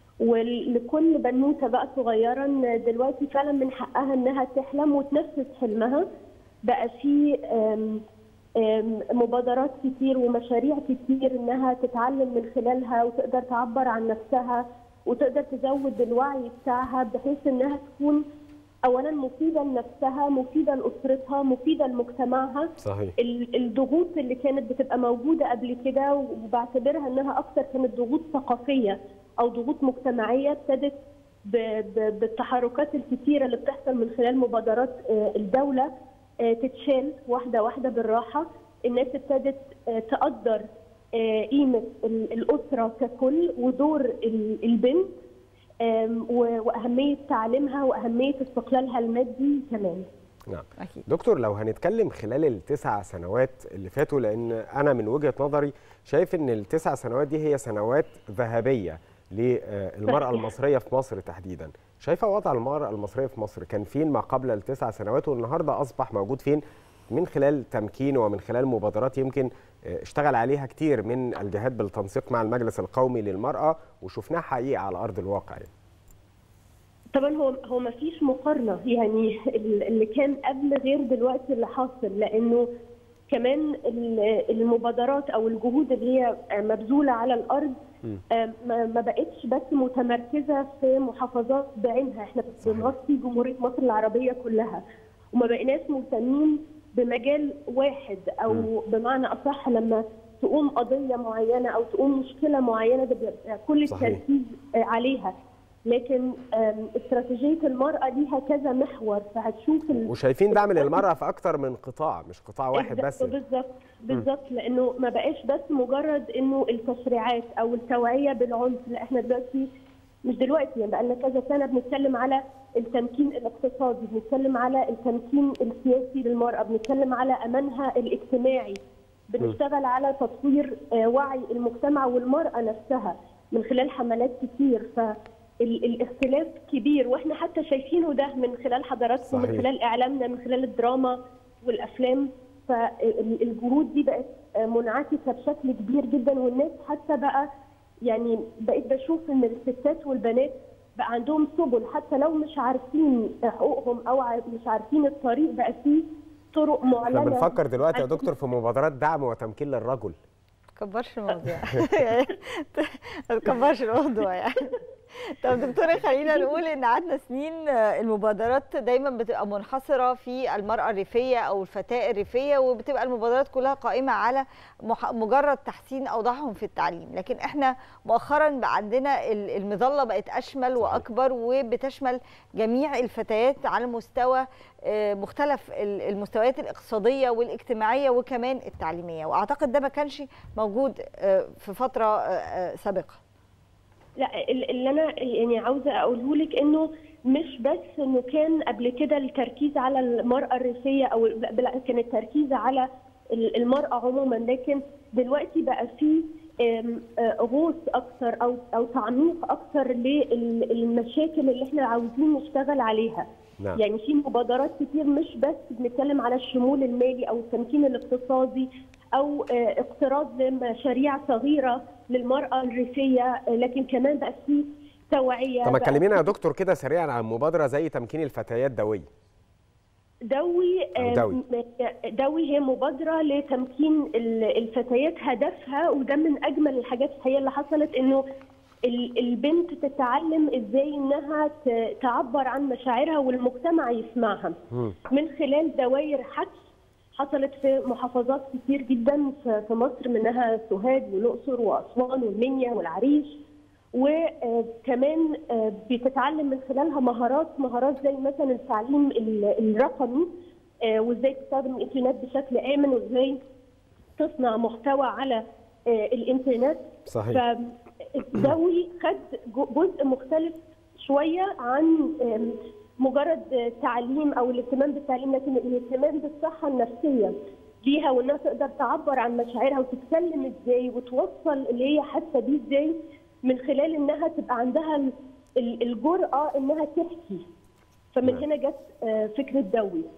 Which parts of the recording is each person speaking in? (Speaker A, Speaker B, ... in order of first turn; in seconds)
Speaker A: 0.2-6.0, 6.6-8.0, 8.6-18.2, 18.9-35.9, 36.4-45.1, 45.8-50.0, 60.1-60.5, 77.1-82.7, 83.3-87.8, 88.3-94.8, 95.3-105.3, 105.9-111.0, 112.7-119.7, 120.2-147.5, 148.1-158.3, 194.2-226.2, 230.3-238.2, 238.8-244.6, 245.1-246.6, 247.2-253.4, 253.9-260.3, 260.8-263.4, 264.2-287.4, 288.1-290.1
Speaker B: 22.8-23.1, 50.5-75.7, 92.6-92.9, 103.9-104.2, 110.0-113.3, 139.2-139.7, 157.1-160.2, 180.8-181.0, 225.6-229.1, 231.0-231.4, 267.1-267.4
Speaker C: 160.8-193.2